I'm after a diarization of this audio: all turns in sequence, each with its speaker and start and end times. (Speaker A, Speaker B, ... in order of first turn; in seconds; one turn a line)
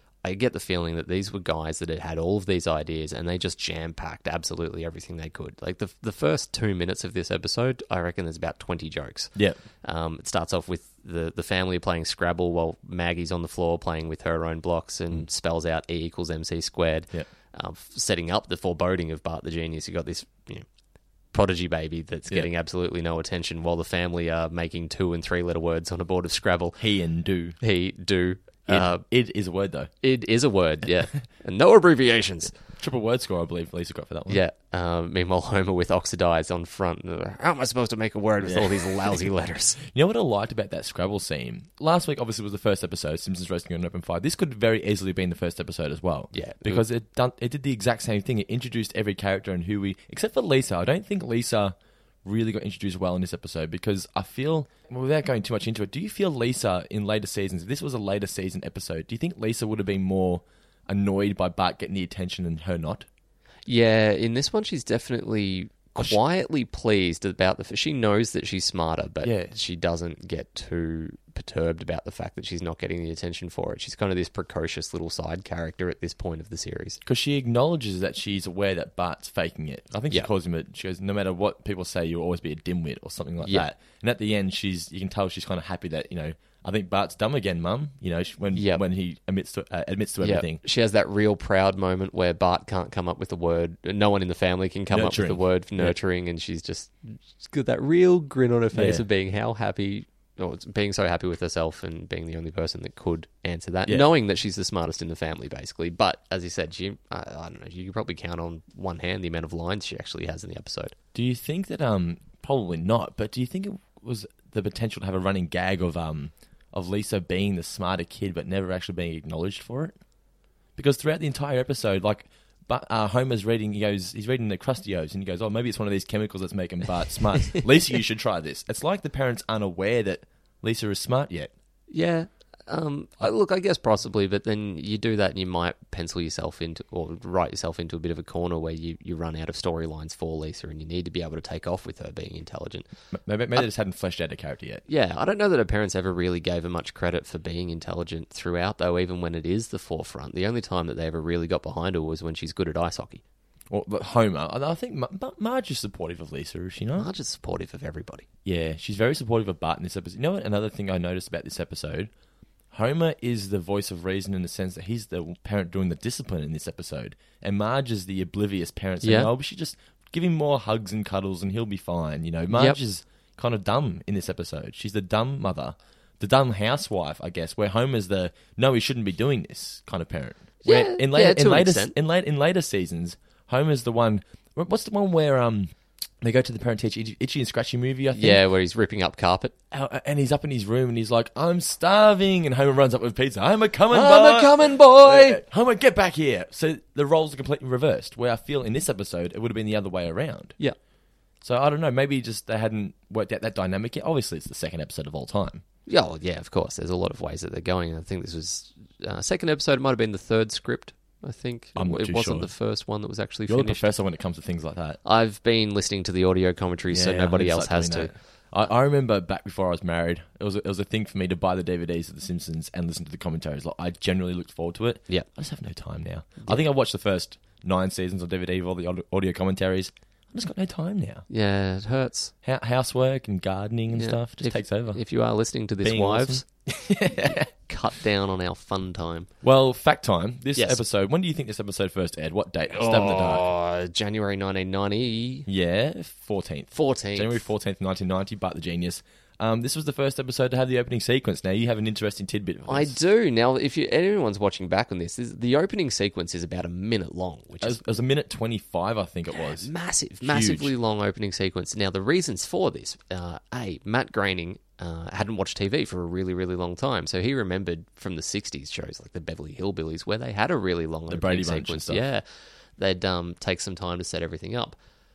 Speaker A: 0.2-20.7
Speaker A: 21.3-26.8
Speaker B: 26.8-27.6
Speaker A: 27.6-29.0
Speaker B: 28.7-29.9
Speaker A: 30.0-32.5
Speaker B: 32.8-34.4
Speaker A: 34.3-39.8
Speaker B: 38.5-38.9
Speaker B: 39.8-63.1
Speaker A: 46.3-46.8
Speaker A: 63.7-77.0
Speaker B: 69.2-69.5
Speaker B: 77.0-90.6
Speaker A: 88.5-88.8
Speaker A: 90.2-111.0
Speaker B: 94.9-96.0
Speaker B: 98.7-99.0
Speaker B: 111.1-120.0
Speaker B: 120.8-131.5
Speaker A: 131.9-142.9
Speaker B: 143.1-144.8
Speaker A: 144.9-153.2
Speaker B: 153.7-157.1
Speaker A: 157.0-158.2
Speaker B: 158.4-162.1
Speaker B: 162.7-188.4
Speaker A: 169.0-169.3
Speaker A: 172.5-172.8
Speaker A: 180.7-181.9
Speaker A: 188.1-189.5
Speaker B: 189.7-200.6
Speaker A: 193.9-195.4
Speaker B: 201.4-205.6
Speaker A: 205.9-213.8
Speaker B: 211.8-212.5
Speaker B: 213.5-215.0
Speaker A: 215.1-218.1
Speaker B: 216.9-231.3
Speaker A: 231.3-232.3
Speaker B: 232.4-235.0
Speaker A: 234.0-236.4
Speaker B: 235.8-237.5
Speaker A: 237.2-239.3
Speaker B: 239.4-243.4
Speaker A: 240.6-240.8
Speaker A: 242.7-245.5
Speaker B: 245.5-253.0
Speaker A: 246.7-247.4
Speaker A: 252.7-257.8
Speaker B: 257.6-259.7
Speaker A: 259.4-272.2
Speaker B: 260.2-260.7
Speaker B: 271.1-272.0
Speaker A: 272.8-274.8